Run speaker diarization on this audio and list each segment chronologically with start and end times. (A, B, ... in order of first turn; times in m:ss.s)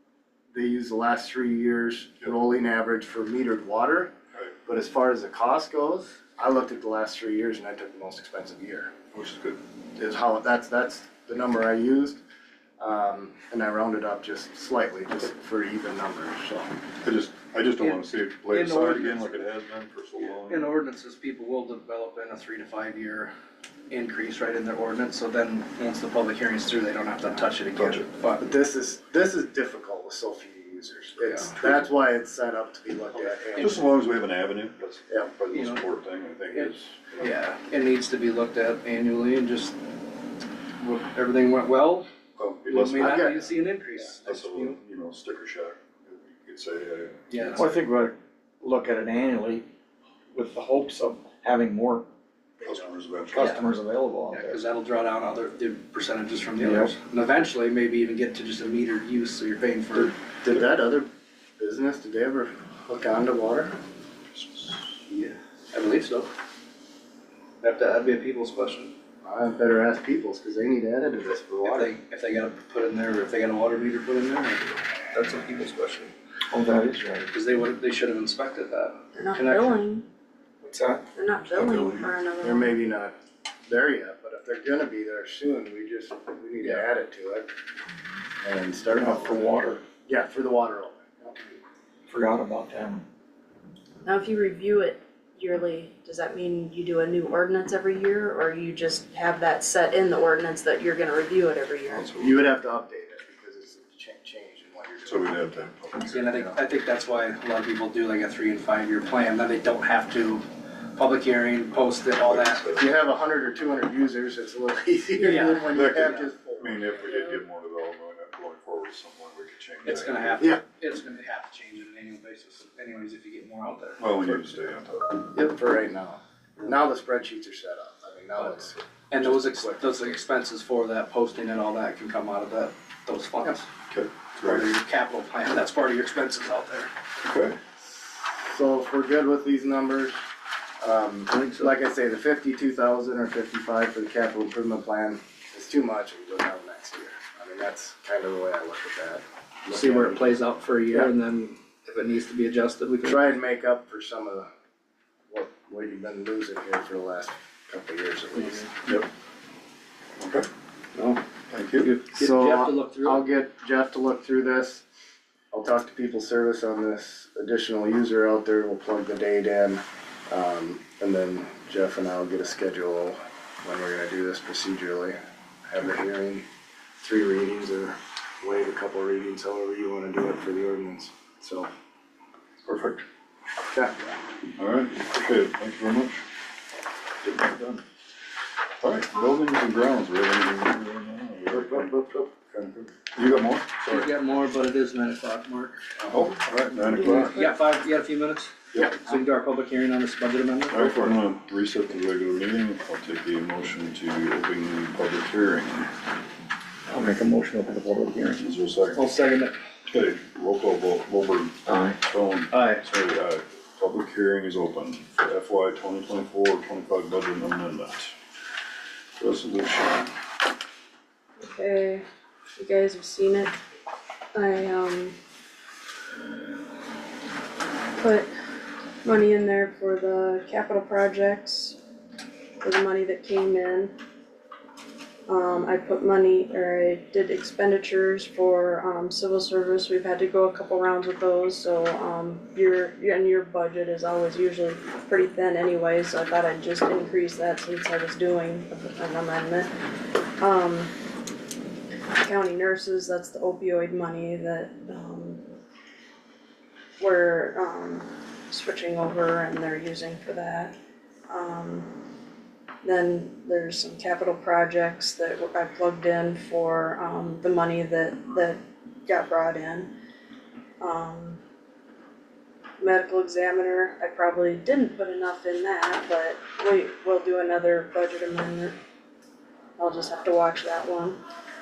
0:00.5-0:04.1 A
0:04.7-0:08.9 A
0:09.1-0:09.6 B
0:10.0-0:12.2 A
0:12.8-0:16.8 A
0:17.0-0:20.7 B
0:17.8-0:19.5 C
0:20.2-0:23.3 C
0:23.9-0:28.4 C
0:27.8-0:28.0 B
0:28.4-0:33.8 A
0:31.3-0:31.8 C
0:33.1-0:33.8 C
0:33.6-0:37.4 B
0:35.5-0:35.8 C
0:36.5-0:39.8 C
0:40.8-0:42.1 C
0:42.4-0:43.3 B
0:42.7-0:44.8 C
0:43.0-0:43.5 A
0:44.2-0:47.6 B
0:47.3-0:47.8 C
0:47.6-0:49.6 D
0:50.3-0:52.0 D
0:52.6-0:53.5 B
0:53.4-0:54.5 D
0:54.3-1:00.1 C
0:56.6-0:56.9 D
1:00.0-1:03.8 A
1:05.1-1:06.3 C
1:07.6-1:08.9 C
1:09.2-1:11.9 A
1:11.6-1:16.1 C
1:16.5-1:17.3 D
1:17.3-1:19.8 C
1:19.1-1:20.0 E
1:20.6-1:21.0 D
1:21.1-1:22.7 E
1:22.4-1:23.1 A
1:23.7-1:27.5 A
1:26.6-1:26.9 C
1:28.4-1:29.5 A
1:29.0-1:29.8 D
1:30.0-1:31.6 A
1:32.1-1:33.0 D
1:34.0-1:42.1 E
1:41.9-1:42.4 B
1:42.2-1:45.5 A
1:45.0-1:46.2 B
1:46.1-1:50.4 C
1:46.2-1:46.6 A
1:51.0-1:52.6 C
1:52.1-1:53.0 B
1:52.7-1:56.9 A
1:55.2-1:56.3 C
1:55.7-2:00.4 B
1:57.0-1:57.3 E
1:59.8-2:04.7 C
2:04.0-2:05.3 B
2:05.3-2:10.2 A
2:09.1-2:13.7 C
2:13.9-2:14.7 B
2:14.4-2:16.9 C
2:17.2-2:17.6 B
2:17.9-2:20.2 A
2:20.8-2:31.1 A
2:21.3-2:21.7 C
2:29.7-2:33.3 C
2:33.0-2:34.5 A
2:35.3-2:38.7 A
2:40.2-2:40.5 B
2:41.5-2:41.9 B
2:41.8-2:43.2 C
2:42.1-2:44.8 A
2:45.5-2:55.2 A
2:55.7-2:56.4 A
2:57.0-3:01.7 A
3:02.6-3:03.0 B
3:04.6-3:06.2 B
3:07.2-3:07.8 B
3:08.8-3:14.1 B
3:11.5-3:12.3 A
3:13.8-3:15.8 C
3:16.1-3:17.4 B
3:16.9-3:17.6 E
3:17.3-3:21.1 C
3:20.7-3:25.9 B
3:26.9-3:28.4 D
3:28.4-3:29.1 B
3:28.9-3:29.6 C
3:29.9-3:38.1 B
3:32.5-3:32.8 C
3:39.2-3:40.1 B
3:41.4-3:42.0 E
3:42.6-3:43.5 E
3:44.3-3:45.2 E
3:48.0-3:48.3 E
3:49.0-3:51.8 E
3:52.6-3:54.0 E
3:55.3-4:09.7 E
4:10.4-4:10.9 E
4:12.2-4:15.4 E
4:17.0-4:20.8 E
4:21.3-4:21.9 E
4:22.8-4:29.9 E
4:30.8-4:31.4 E
4:32.8-4:38.8 E
4:39.8-4:41.2 E